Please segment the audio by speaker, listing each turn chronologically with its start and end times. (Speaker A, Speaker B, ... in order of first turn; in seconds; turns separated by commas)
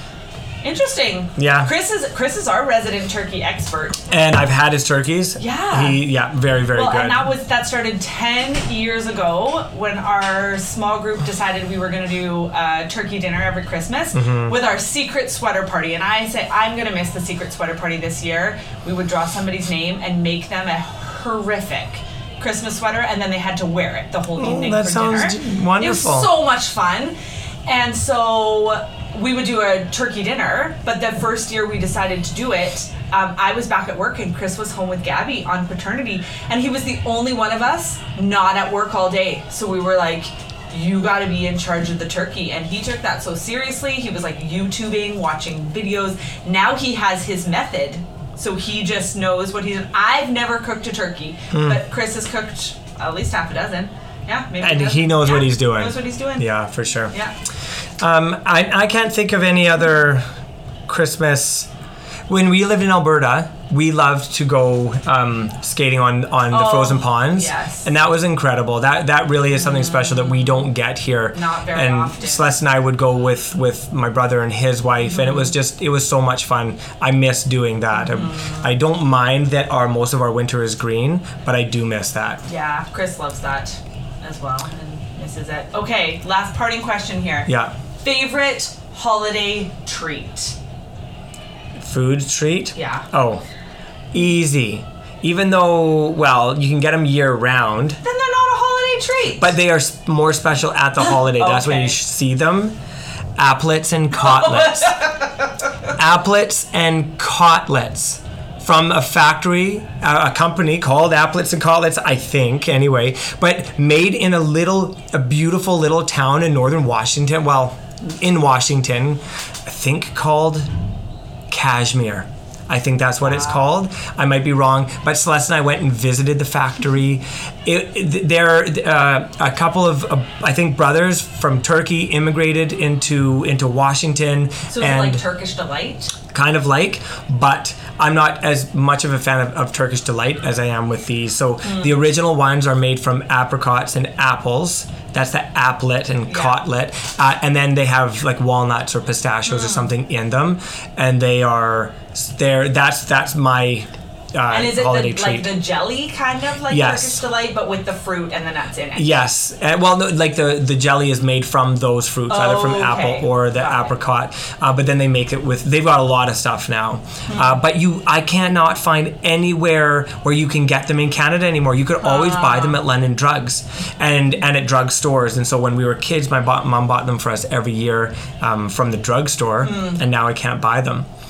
Speaker A: 0.6-4.1, Speaker B: 1.4-1.7, Speaker B: 4.1-7.3, Speaker A: 5.4-6.0, Speaker A: 6.7-56.5, Speaker B: 14.1-14.5, Speaker B: 24.4-26.3, Speaker B: 51.5-51.8, Speaker B: 54.6-57.1, Speaker B: 58.0-60.2, Speaker B: 60.9-61.7, Speaker B: 62.3-82.4, Speaker A: 66.5-67.9, Speaker A: 69.8-70.5, Speaker A: 71.3-72.5, Speaker A: 75.1-75.5, Speaker A: 77.9-78.7, Speaker A: 82.4-90.5, Speaker B: 87.5-87.7, Speaker B: 91.8-93.4, Speaker A: 92.8-93.1, Speaker B: 94.1-98.0, Speaker A: 98.0-99.5, Speaker B: 99.4-102.8, Speaker A: 101.0-102.0, Speaker B: 103.4-105.0, Speaker A: 104.2-105.5, Speaker B: 106.0-120.7, Speaker B: 121.5-135.2, Speaker A: 123.2-123.6, Speaker A: 134.7-136.1, Speaker B: 136.3-155.5, Speaker A: 141.6-141.9, Speaker A: 146.3-146.6, Speaker A: 149.5-149.9, Speaker A: 154.5-159.1, Speaker B: 156.7-157.2, Speaker B: 158.9-181.1, Speaker A: 162.3-163.9, Speaker A: 167.3-167.6, Speaker A: 172.0-172.8, Speaker A: 179.6-180.0